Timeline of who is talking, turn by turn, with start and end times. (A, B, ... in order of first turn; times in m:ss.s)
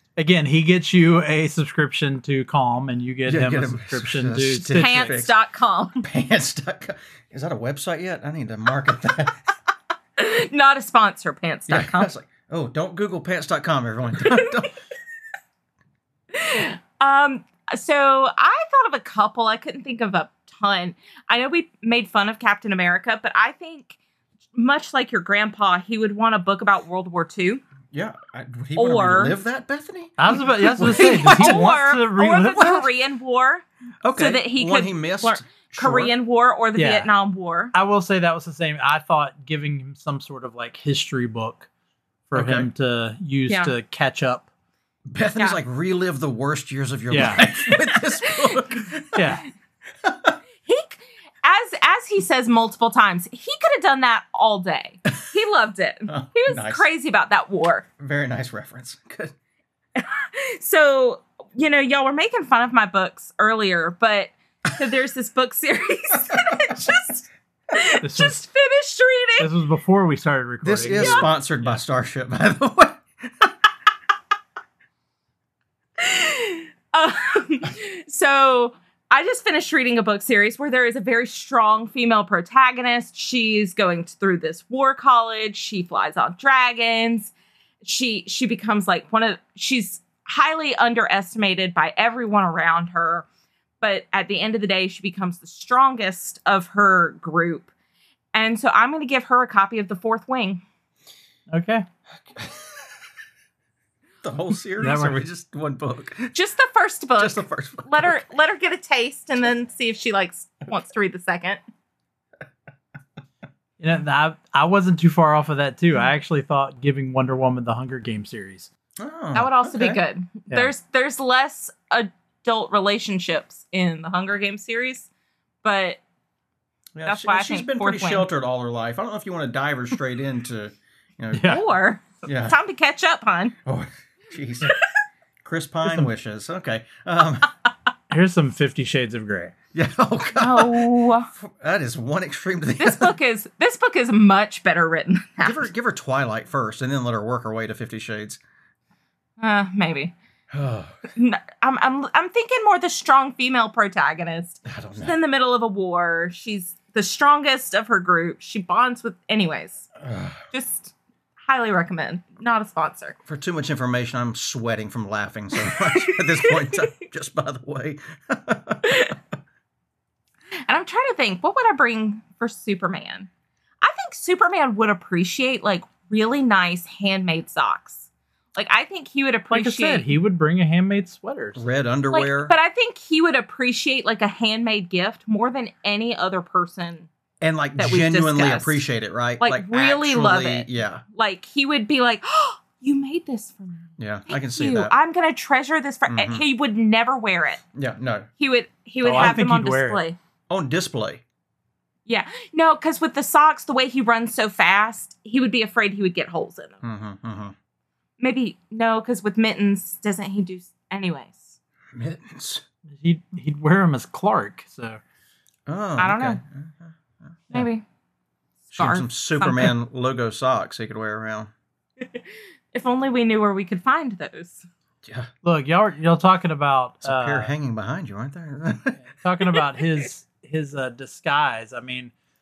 0:00.2-0:05.2 A
0:03.3-0:05.3 B
0:04.7-0:06.0 C
0:06.0-0:09.4 B
0:10.2-0:12.1 C
0:11.7-0:14.7 B
0:14.2-0:14.6 C
0:16.3-0:24.0 C
0:24.5-0:27.6 C
0:27.9-0:31.7 B
0:28.8-0:29.4 C
0:30.2-0:32.8 A
0:30.8-0:33.6 C
0:34.0-0:36.1 B
0:34.2-0:37.7 C
0:36.8-0:37.1 A
0:37.7-0:41.7 A
0:42.3-0:44.5 A
0:42.3-0:42.7 B
0:45.1-0:49.4 B
0:47.1-0:47.4 A
0:47.7-0:48.8 C
0:49.1-0:49.4 A
0:50.0-0:50.4 B
0:50.6-0:57.9 C
0:56.1-0:56.8 B
0:58.0-0:59.3 B
1:00.0-1:09.5 C
1:08.0-1:08.5 A
1:09.4-1:11.3 A
1:10.6-1:13.5 B
1:11.0-1:11.3 C
1:16.0-1:27.3 C
1:27.8-1:33.3 C
1:33.8-1:37.7 C
1:38.3-1:40.6 C
1:41.5-1:41.8 A
1:42.3-1:42.9 B
1:44.2-1:46.3 B
1:44.8-1:45.2 A
1:46.3-1:51.6 C
1:47.2-1:48.2 B
1:53.8-1:58.7 A
1:59.0-2:00.0 B
1:59.3-2:05.1 C
2:05.6-2:06.0 C
2:07.0-2:11.6 B
2:07.1-2:08.3 C
2:11.3-2:11.6 A
2:11.4-2:13.6 C
2:12.2-2:12.6 B
2:13.6-2:14.8 B
2:15.4-2:17.5 B
2:18.1-2:19.5 A
2:19.7-2:23.2 B
2:20.4-2:21.3 C
2:22.8-2:25.7 C
2:25.4-2:28.4 B
2:29.4-2:30.1 C
2:30.5-2:31.0 B
2:31.2-2:39.9 C
2:34.7-2:35.1 B
2:40.0-2:40.4 B
2:40.5-2:40.9 C
2:41.4-2:43.2 C
2:43.3-2:49.0 B
2:45.8-2:46.9 C
2:48.8-2:49.2 C
2:50.7-2:53.3 C
2:53.8-3:00.1 C
2:59.5-3:01.6 A
3:01.6-3:02.5 B
3:02.1-3:07.1 C
3:07.4-3:11.0 B
3:07.8-3:08.8 C
3:09.4-3:17.6 C
3:14.0-3:14.9 B
3:16.1-3:16.4 B
3:17.8-3:18.3 B
3:18.4-3:20.2 C
3:19.0-3:20.0 A
3:19.0-3:19.4 B
3:20.5-3:21.2 B
3:22.1-3:26.8 C
3:26.8-3:27.6 B
3:28.2-3:31.6 C
3:31.9-3:32.6 B
3:32.9-3:35.0 A
3:35.7-3:37.4 B
3:36.0-3:36.4 C
3:37.5-3:37.8 C
3:38.7-3:39.7 C
3:38.8-3:41.5 B
3:42.0-3:44.7 C
3:45.0-3:45.3 B
3:45.4-3:47.5 A
3:47.0-3:49.0 B
3:49.0-3:52.1 A